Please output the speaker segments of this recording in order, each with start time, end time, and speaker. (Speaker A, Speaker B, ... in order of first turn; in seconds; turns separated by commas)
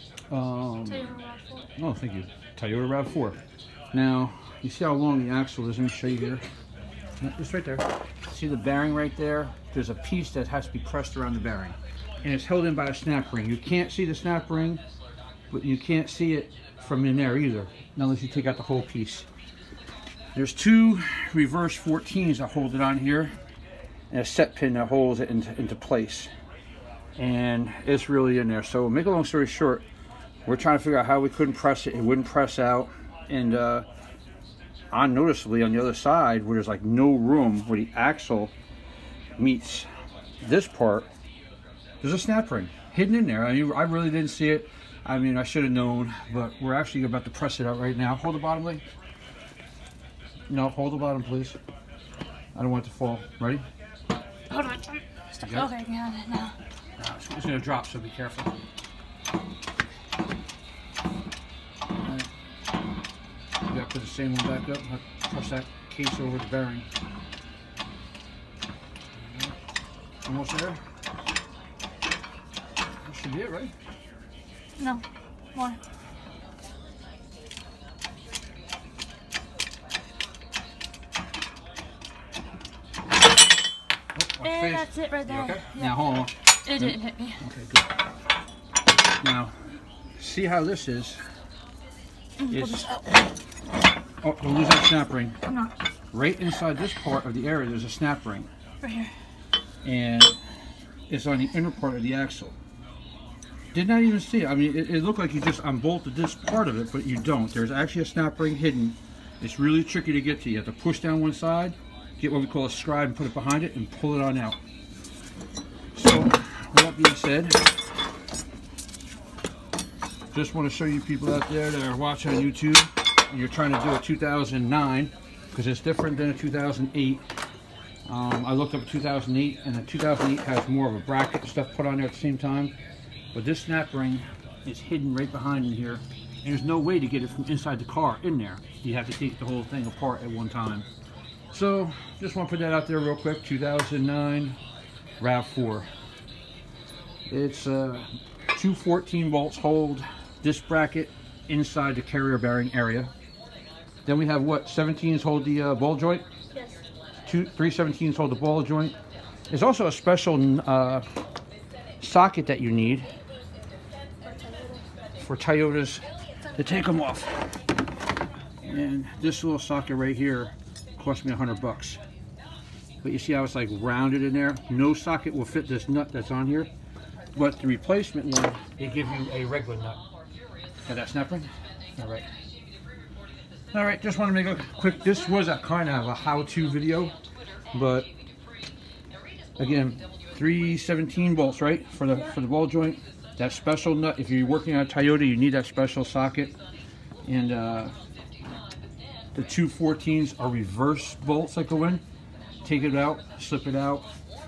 Speaker A: 0.3-1.1, Speaker B: 0.9-1.7, Speaker A: 1.8-3.4, Speaker A: 3.9-6.4, Speaker A: 7.2-14.8, Speaker A: 15.5-19.3, Speaker A: 20.3-23.4, Speaker A: 24.1-26.3, Speaker A: 27.2-29.8, Speaker A: 30.4-33.9, Speaker A: 34.9-38.5, Speaker A: 39.4-39.9, Speaker A: 40.4-41.1, Speaker A: 42.0-48.8, Speaker A: 50.5-51.6, Speaker A: 52.5-53.6, Speaker B: 54.5-56.5, Speaker A: 55.3-55.7, Speaker A: 57.0-58.5, Speaker A: 62.0-62.3, Speaker A: 63.7-66.9, Speaker A: 69.1-69.5, Speaker A: 70.2-70.8, Speaker A: 73.0-73.7, Speaker B: 74.8-75.0, Speaker A: 84.1-87.9, Speaker B: 84.4-86.0, Speaker B: 86.6-87.4, Speaker A: 89.2-89.6, Speaker A: 90.2-91.2, Speaker B: 92.4-93.0, Speaker A: 92.5-92.9, Speaker A: 94.2-95.4, Speaker B: 95.4-95.7, Speaker A: 96.1-98.5, Speaker B: 98.8-99.1, Speaker A: 99.8-100.3, Speaker A: 101.1-102.5, Speaker A: 103.7-114.6, Speaker A: 115.9-117.8, Speaker A: 120.3-127.2, Speaker A: 128.1-132.7, Speaker A: 133.3-140.9, Speaker A: 141.5-144.6, Speaker A: 145.2-145.9, Speaker A: 147.3-153.1, Speaker A: 154.1-156.2, Speaker B: 156.5-156.8, Speaker A: 157.2-158.9, Speaker A: 159.5-161.1, Speaker A: 162.0-163.1, Speaker B: 164.2-164.8, Speaker A: 165.2-167.6, Speaker A: 168.6-172.0, Speaker A: 173.0-176.7, Speaker A: 177.3-180.0, Speaker A: 180.9-182.3, Speaker A: 183.7-187.2, Speaker A: 187.7-188.1, Speaker A: 189.6-196.5, Speaker A: 197.2-197.9, Speaker A: 199.3-202.0, Speaker A: 202.6-204.1